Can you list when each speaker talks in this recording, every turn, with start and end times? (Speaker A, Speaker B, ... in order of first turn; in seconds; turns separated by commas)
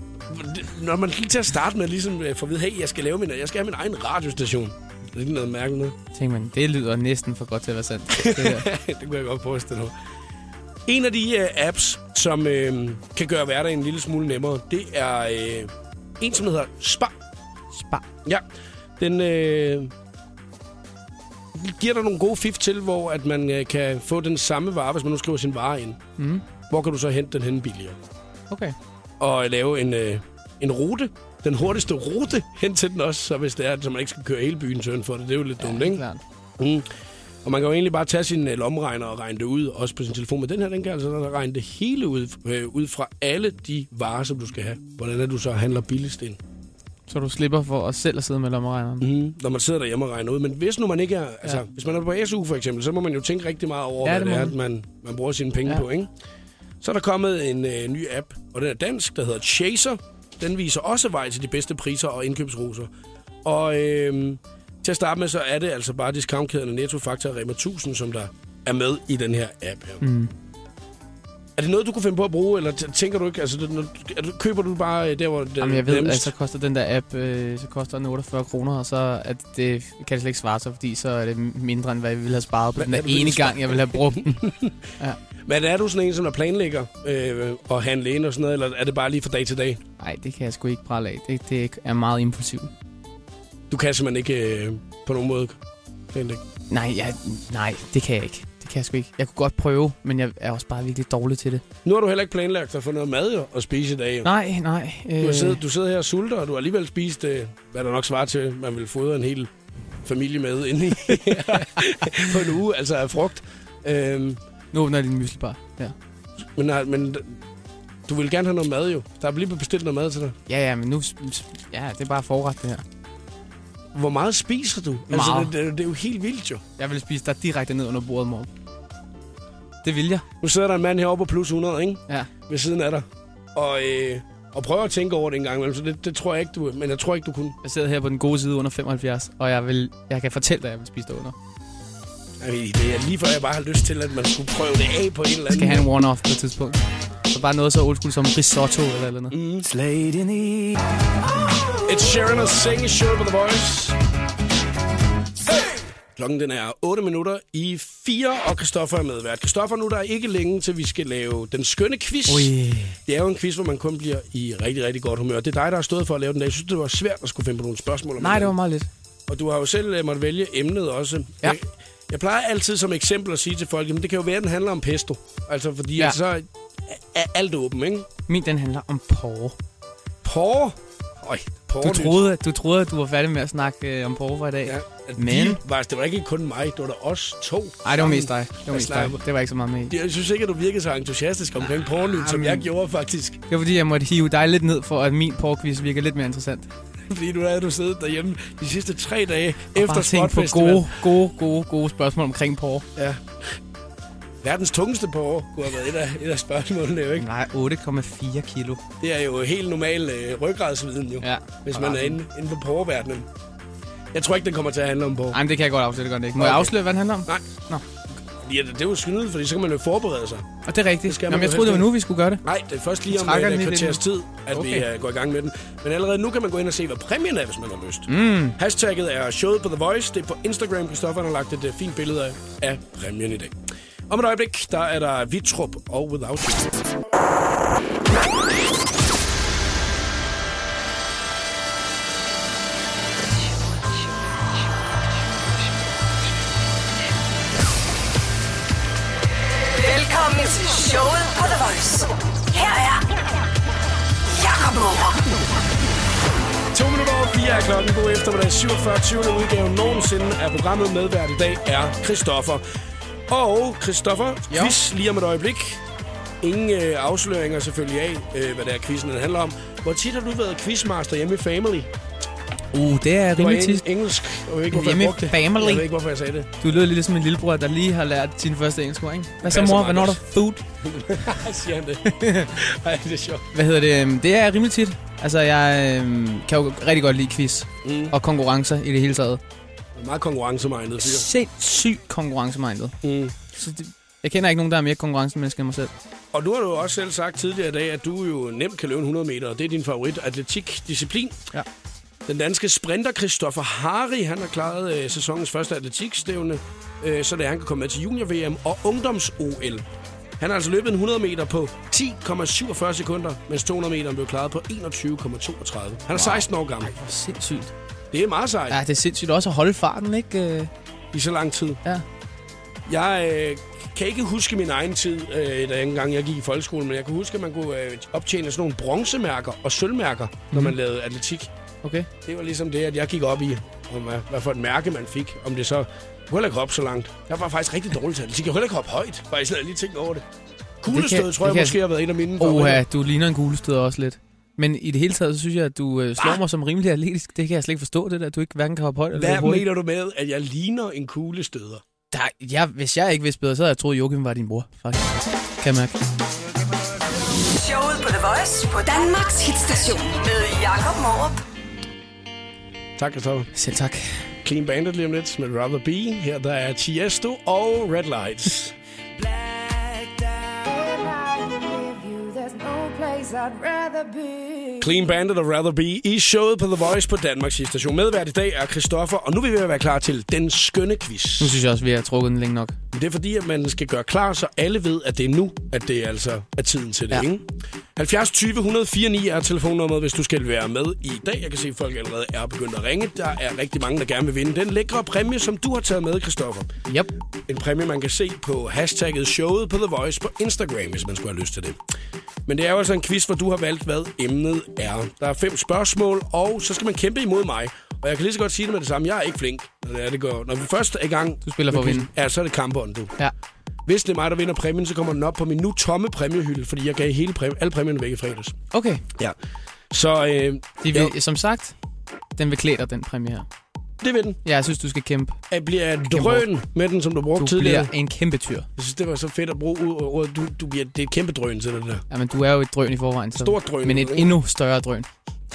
Speaker A: 0.3-6.0, Speaker B: 6.1-8.7, Speaker A: 8.1-9.9, Speaker A: 10.9-17.1, Speaker B: 17.7-18.0, Speaker A: 19.0-19.9, Speaker A: 21.5-26.0, Speaker B: 26.2-26.4, Speaker A: 26.7-28.0, Speaker B: 28.5-28.8, Speaker A: 29.2-36.0, Speaker B: 35.6-36.2, Speaker A: 36.6-36.9, Speaker A: 37.4-46.4, Speaker B: 47.1-49.1, Speaker A: 49.0-56.1, Speaker B: 54.0-54.5, Speaker A: 56.8-62.9, Speaker A: 63.4-70.0, Speaker B: 70.0-70.3, Speaker A: 71.6-76.3, Speaker B: 75.6-85.2, Speaker A: 82.8-84.7, Speaker A: 85.5-89.8, Speaker B: 90.0-92.7, Speaker A: 93.7-95.6, Speaker A: 96.1-96.4, Speaker B: 96.7-101.6, Speaker A: 101.8-104.3, Speaker B: 104.2-105.6, Speaker A: 105.2-109.5, Speaker A: 110.0-114.4, Speaker B: 111.2-112.2, Speaker B: 114.7-115.9, Speaker A: 116.5-117.4, Speaker A: 118.1-120.3, Speaker B: 120.5-122.8, Speaker A: 123.9-126.6, Speaker B: 125.1-125.5, Speaker B: 126.8-128.5, Speaker B: 129.8-130.2, Speaker A: 130.4-137.6, Speaker B: 137.6-141.3, Speaker A: 142.4-145.9, Speaker B: 145.5-150.7, Speaker A: 149.3-149.7, Speaker A: 151.8-153.9, Speaker A: 156.1-162.5, Speaker B: 162.3-163.0, Speaker A: 163.1-168.5, Speaker B: 168.2-168.9, Speaker A: 169.3-178.1, Speaker B: 178.3-179.6, Speaker A: 180.2-182.2, Speaker B: 181.8-185.6, Speaker A: 184.6-189.2, Speaker B: 187.8-189.9, Speaker A: 189.9-193.4, Speaker B: 192.1-192.7, Speaker B: 193.5-196.7, Speaker A: 197.1-201.0, Speaker B: 199.7-202.8, Speaker A: 202.9-203.5, Speaker A: 204.4-207.3, Speaker B: 207.2-208.8, Speaker A: 209.0-213.3, Speaker B: 211.2-212.2, Speaker A: 214.1-215.4, Speaker B: 215.3-217.8, Speaker A: 216.4-217.4, Speaker A: 218.4-220.5, Speaker B: 220.7-222.4, Speaker A: 221.1-233.6, Speaker B: 223.1-224.8, Speaker B: 228.1-228.6, Speaker A: 234.1-236.8, Speaker C: 249.6-253.1, Speaker C: 254.3-255.3, Speaker A: 256.7-262.6, Speaker A: 263.3-265.8, Speaker B: 264.5-264.8, Speaker A: 266.4-271.9, Speaker B: 272.7-273.8, Speaker A: 273.4-276.5, Speaker B: 274.7-275.9, Speaker B: 276.6-280.6, Speaker A: 279.4-280.2, Speaker A: 280.8-283.4, Speaker B: 282.0-282.5, Speaker B: 283.5-289.4, Speaker A: 287.8-288.1, Speaker A: 289.9-291.3, Speaker B: 291.0-292.9, Speaker A: 293.0-293.4, Speaker B: 293.5-295.9, Speaker A: 296.3-301.5, Speaker A: 302.2-309.8, Speaker A: 310.4-316.9, Speaker B: 316.1-317.7, Speaker A: 318.1-318.8, Speaker B: 318.7-320.7, Speaker A: 321.1-321.8, Speaker A: 322.9-331.5, Speaker B: 331.8-332.1, Speaker A: 332.2-340.2, Speaker A: 340.8-342.8, Speaker B: 340.9-341.8, Speaker B: 342.4-349.6, Speaker A: 349.1-351.8, Speaker B: 352.1-356.0, Speaker C: 357.4-361.4, Speaker A: 363.0-363.5, Speaker B: 363.5-364.2, Speaker A: 364.4-368.7, Speaker D: 369.2-375.0, Speaker A: 374.8-381.6, Speaker B: 381.4-382.7, Speaker A: 382.9-396.7, Speaker A: 397.5-401.8, Speaker A: 402.5-413.1, Speaker B: 411.4-412.1, Speaker A: 413.9-418.6, Speaker B: 418.7-419.0, Speaker A: 419.9-421.1, Speaker B: 420.8-421.7, Speaker B: 422.4-423.5, Speaker A: 424.0-424.4, Speaker B: 424.4-425.4, Speaker A: 425.5-427.9, Speaker B: 426.1-426.4, Speaker B: 427.4-428.7, Speaker A: 428.8-432.0, Speaker B: 432.1-435.1, Speaker A: 433.4-434.4